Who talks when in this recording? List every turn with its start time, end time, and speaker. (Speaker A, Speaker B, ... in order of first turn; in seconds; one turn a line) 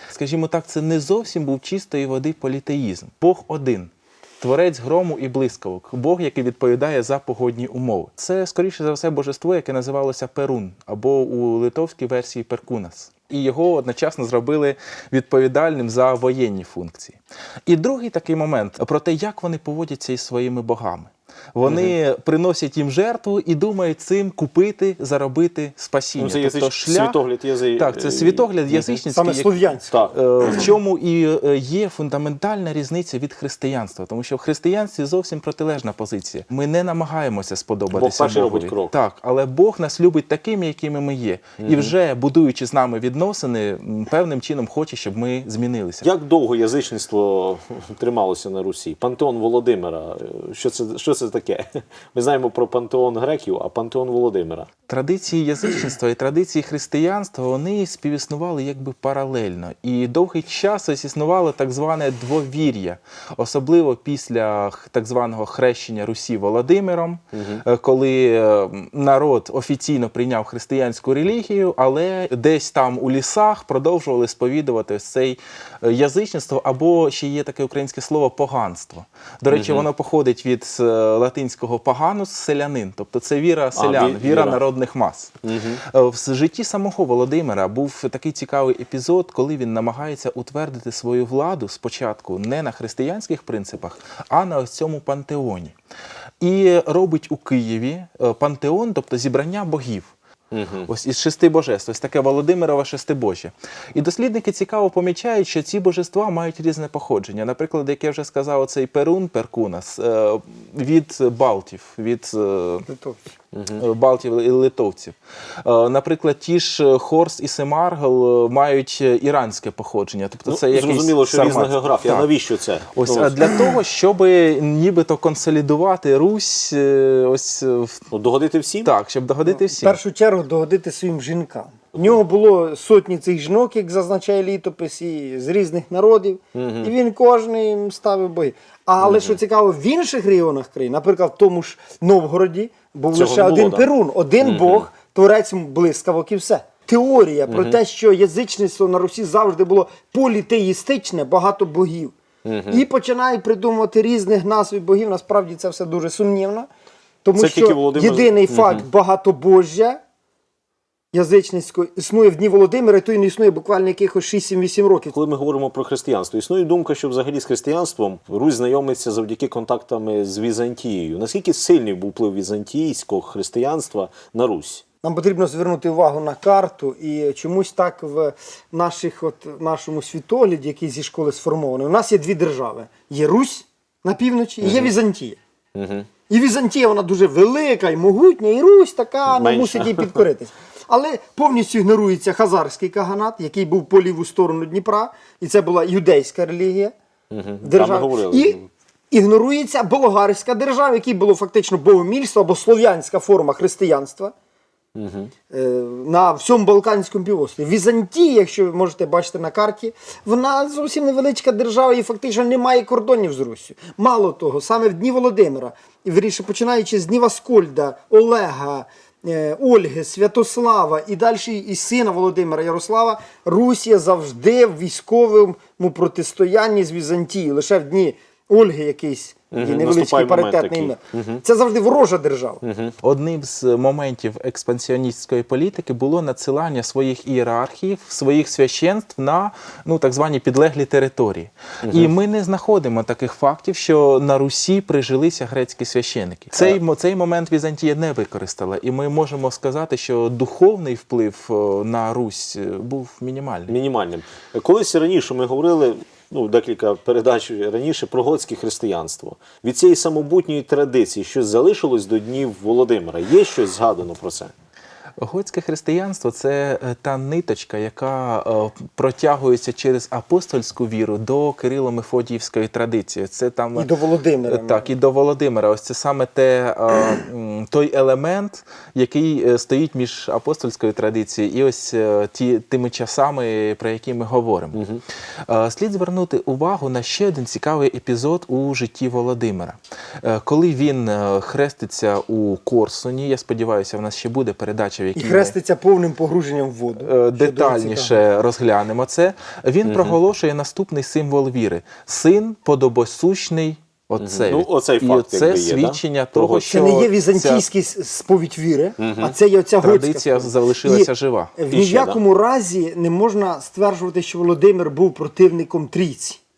Speaker A: 0.1-27.2
Speaker B: 21.7-21.9
Speaker B: 26.2-29.0
Speaker A: 27.8-46.1
Speaker C: 29.1-29.9
Speaker B: 29.9-30.7
Speaker B: 37.9-38.9
Speaker B: 41.6-41.9
Speaker B: 46.0-54.7
Speaker A: 54.9-95.8
Speaker B: 67.3-67.6
Speaker B: 79.5-79.9
Speaker B: 83.8-84.6
Speaker B: 85.4-85.8
Speaker A: 96.4-100.1
Speaker B: 100.5-100.9
Speaker A: 100.9-112.9
Speaker C: 112.9-113.2
Speaker B: 113.5-113.8
Speaker A: 113.8-122.3
Speaker B: 120.5-123.5
Speaker A: 122.9-128.1
Speaker B: 128.1-128.9
Speaker A: 128.8-130.0
Speaker C: 129.5-152.2
Speaker B: 136.5-136.9
Speaker B: 139.0-139.4
Speaker B: 143.1-143.9
Speaker B: 144.4-144.9
Speaker B: 147.5-147.8
Speaker B: 152.4-152.8
Speaker C: 152.7-156.7
Speaker C: 157.2-160.0
Speaker B: 157.4-158.9
Speaker C: 161.1-165.2
Speaker B: 165.1-174.8
Speaker C: 175.0-185.4
Speaker B: 184.6-184.9
Speaker B: 185.8-186.1
Speaker C: 186.3-196.9
Speaker B: 189.3-190.2
Speaker B: 197.3-198.7
Speaker C: 197.6-198.6
Speaker C: 199.1-204.3
Speaker B: 204.9-205.3
Speaker C: 205.5-232.6
Speaker B: 229.5-231.4
Speaker B: 232.6-233.0
Speaker A: 233.0-253.8
Speaker B: 241.8-242.1
Speaker B: 253.7-264.5
Speaker A: 265.2-273.9
Speaker C: 273.8-274.9
Speaker A: 274.5-284.8
Speaker B: 284.7-285.0
Speaker A: 285.5-295.6
Speaker C: 295.2-298.2
Speaker A: 297.0-307.6
Speaker B: 299.9-300.2
Speaker B: 304.2-306.7
Speaker C: 306.7-316.4
Speaker B: 309.0-309.3
Speaker A: 309.8-311.5
Speaker B: 311.7-312.2